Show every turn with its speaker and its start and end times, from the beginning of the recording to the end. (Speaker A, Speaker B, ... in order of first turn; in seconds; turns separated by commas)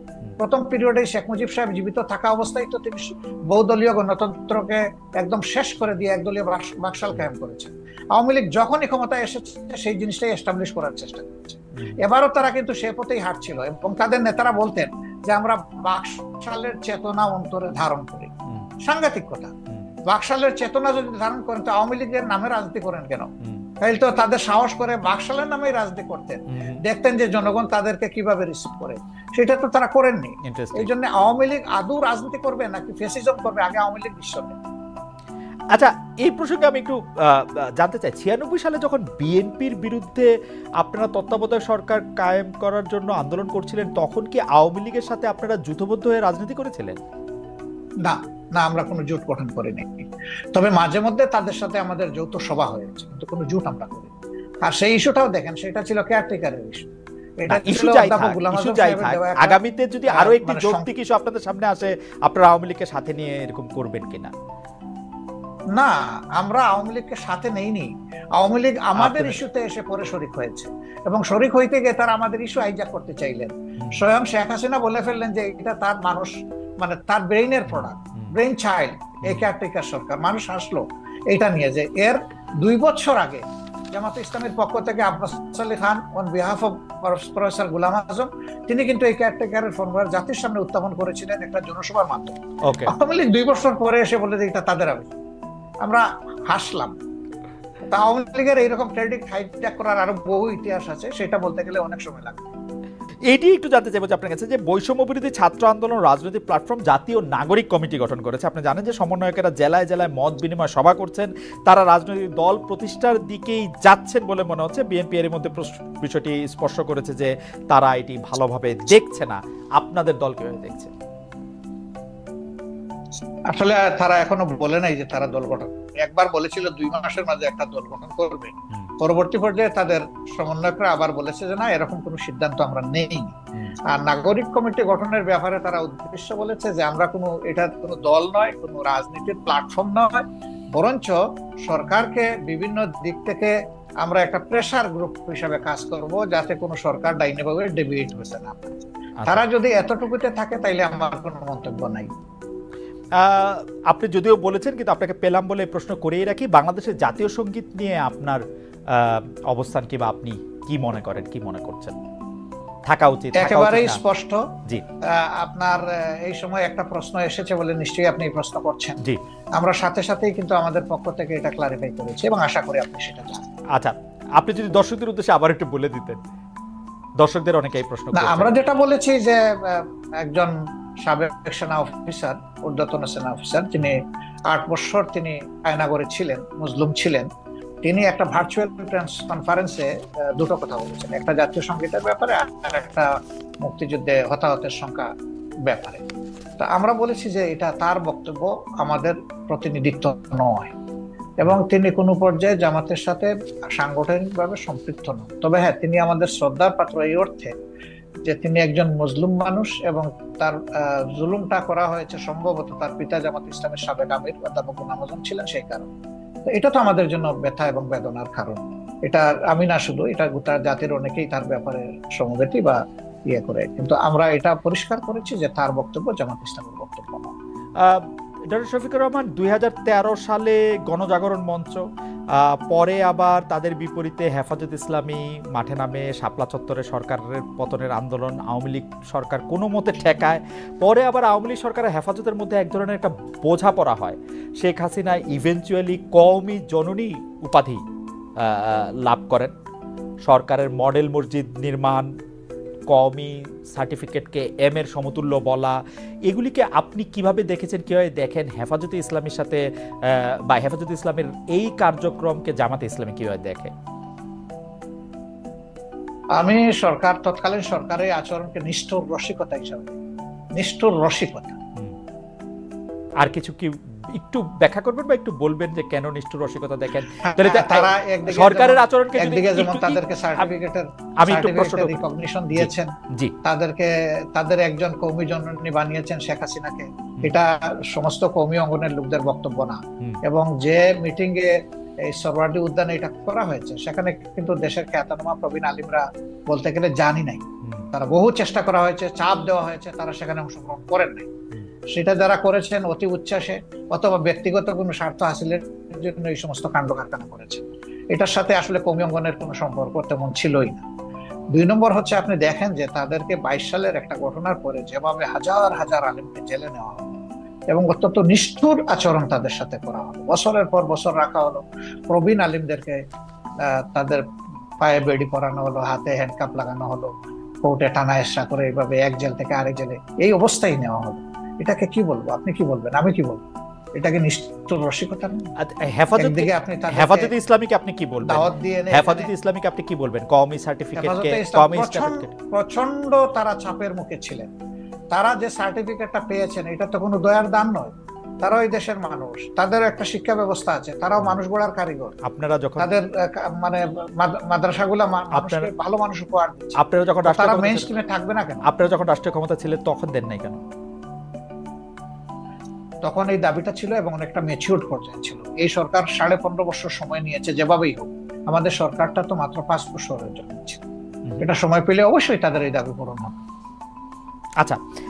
Speaker A: 0.4-18.3, Speaker A: 18.8-19.5, Speaker A: 20.1-23.3, Speaker A: 23.8-34.6, Speaker B: 26.5-26.8, Speaker B: 30.4-30.9, Speaker B: 35.7-47.0, Speaker A: 48.0-54.1, Speaker A: 54.6-56.9, Speaker A: 57.4-60.9, Speaker B: 57.5-64.3, Speaker A: 65.7-92.3, Speaker B: 69.0-69.4, Speaker B: 77.7-78.3, Speaker B: 92.6-92.9, Speaker A: 92.9-95.1, Speaker A: 95.8-97.0, Speaker A: 97.9-102.5, Speaker B: 103.3-120.9, Speaker A: 123.5-133.3, Speaker A: 133.9-152.1, Speaker B: 149.2-149.4, Speaker B: 153.2-158.4, Speaker B: 158.9-162.0, Speaker B: 162.9-164.0, Speaker A: 163.3-164.4, Speaker A: 165.2-169.0, Speaker A: 169.6-173.4, Speaker B: 173.7-176.2, Speaker B: 177.2-178.5, Speaker A: 178.1-187.3, Speaker A: 187.8-193.1, Speaker A: 193.6-195.1, Speaker A: 195.7-196.0, Speaker A: 196.6-200.7, Speaker A: 201.4-207.5, Speaker A: 208.2-210.6, Speaker A: 211.2-215.9, Speaker A: 216.5-227.3, Speaker B: 227.8-231.8, Speaker B: 232.3-247.8, Speaker B: 248.4-249.5, Speaker B: 250.2-252.1, Speaker B: 252.9-263.7, Speaker A: 266.4-270.0, Speaker A: 270.6-271.6, Speaker B: 273.2-280.0, Speaker A: 277.2-282.9, Speaker B: 281.2-282.0, Speaker B: 282.5-283.3, Speaker A: 283.4-291.5, Speaker A: 292.1-301.3, Speaker A: 301.9-310.8, Speaker A: 311.5-317.1, Speaker A: 317.7-323.0, Speaker A: 323.9-324.2, Speaker A: 324.8-327.1, Speaker A: 327.6-333.4, Speaker A: 334.0-335.5, Speaker B: 335.6-342.3, Speaker A: 336.2-337.3, Speaker A: 338.2-339.3, Speaker A: 340.9-344.5, Speaker A: 345.1-352.1, Speaker B: 352.2-352.9, Speaker A: 352.8-358.6, Speaker B: 355.3-355.7, Speaker B: 356.8-357.9, Speaker B: 358.7-360.6, Speaker A: 363.0-370.8, Speaker A: 371.4-373.4